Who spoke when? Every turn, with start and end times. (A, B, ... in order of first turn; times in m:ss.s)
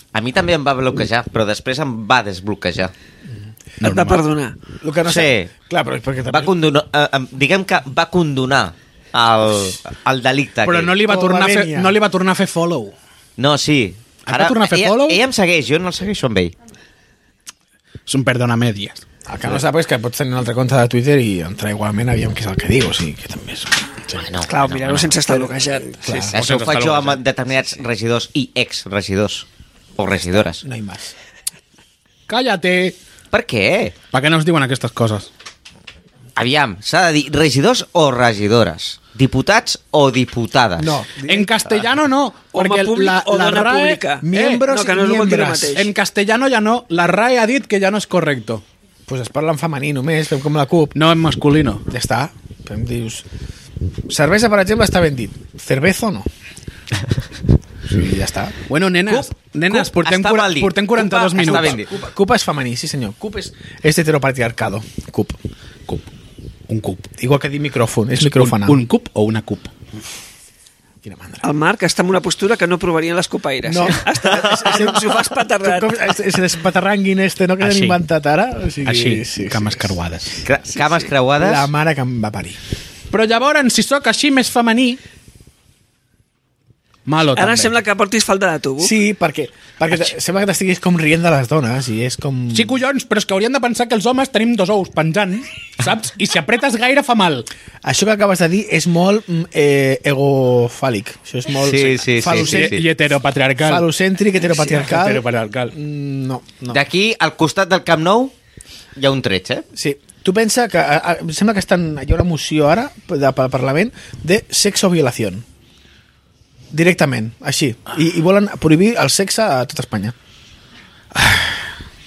0:00.1-0:02.9 A
0:03.8-0:04.2 B
0:03.8-0:04.6 C
0:04.8-0:06.5 D
0:05.0-0:05.5 A
0:06.3-0:11.0 A
0:10.6-0:12.9 B
0:11.0-0:12.0 D
0:13.4-0:16.5 A
0:14.2-0:15.2 B
0:18.1-0:19.0 B
0:19.2-0:23.8 D
0:24.2-0:25.2 A
0:24.4-0:26.3 C
0:25.3-0:26.4 D
0:26.3-0:29.4 A
0:26.3-0:27.2 B
0:30.0-0:30.6 A
0:30.6-0:31.1 D
0:32.3-0:33.0 B
0:33.3-0:33.9 A
0:34.1-0:35.3 B
0:36.4-0:41.0 A
0:40.8-0:41.8 D
0:41.2-0:44.6 B
0:42.5-0:45.9 C
0:44.2-0:45.8 D
0:45.7-0:48.6 B
0:49.1-0:50.9 D
0:50.9-0:51.8 B
0:51.9-0:53.2 D
0:54.1-0:56.2 D
0:57.9-0:58.6 D
0:58.7-1:01.8 B
0:59.1-1:01.9 A
1:01.4-1:05.4 D
1:06.7-1:07.1 B
1:07.2-1:08.8 D
1:08.2-1:09.7 B
1:11.0-1:11.4 D
1:11.4-1:16.2 C
1:13.6-1:19.9 D
1:17.6-1:18.0 B
1:18.8-1:20.4 B
1:20.4-1:21.7 A
1:21.4-1:22.6 D
1:23.1-1:25.0 B
1:27.0-1:27.7 B
1:27.3-1:28.9 C
1:28.8-1:32.8 D
1:32.5-1:37.5 B
1:37.8-1:42.8 D
1:41.6-1:42.8 A
1:42.2-1:43.9 B
1:43.6-1:46.8 D
1:44.6-1:45.7 B
1:46.7-1:48.3 A
1:49.0-1:49.6 A
1:49.7-1:55.4 D
1:56.7-2:00.1 D